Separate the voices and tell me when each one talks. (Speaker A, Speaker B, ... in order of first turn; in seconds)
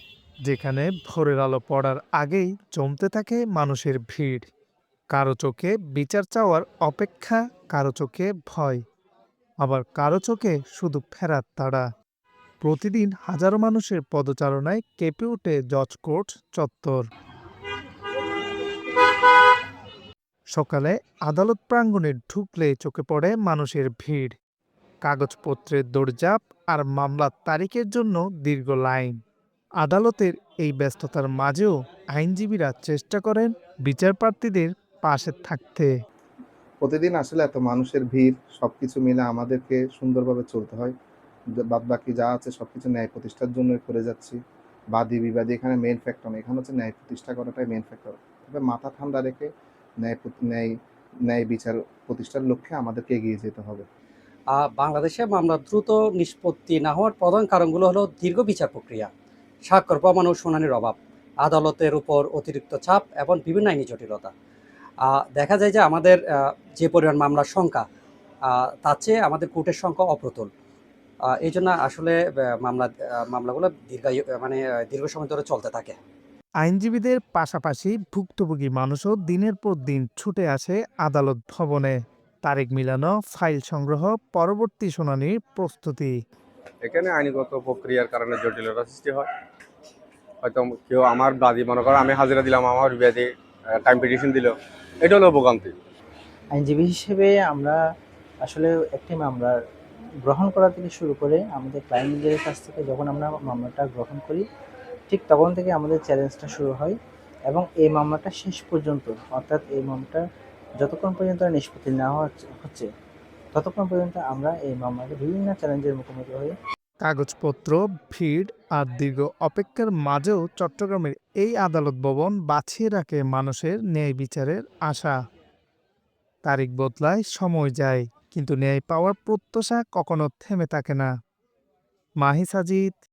Speaker A: 0.4-4.5, 5.1-8.8, 9.6-11.8, 12.6-17.0, 20.5-24.3, 25.0-29.2, 29.8-35.9, 76.6-86.1, 117.0-125.1, 126.4-131.1, 132.2-132.9
Speaker B: 36.8-40.9, 41.6-44.4, 44.9-49.5, 50.0-50.7, 51.3-53.9
Speaker C: 54.5-59.1, 59.6-64.3, 65.0-67.8, 68.5-70.5, 71.3-75.9
Speaker D: 86.8-89.3, 90.4-93.2, 93.8-95.7
Speaker E: 96.5-97.8, 98.5-99.6, 100.2-104.5, 105.1-107.0, 107.5-110.2, 110.8-112.9, 113.5-116.5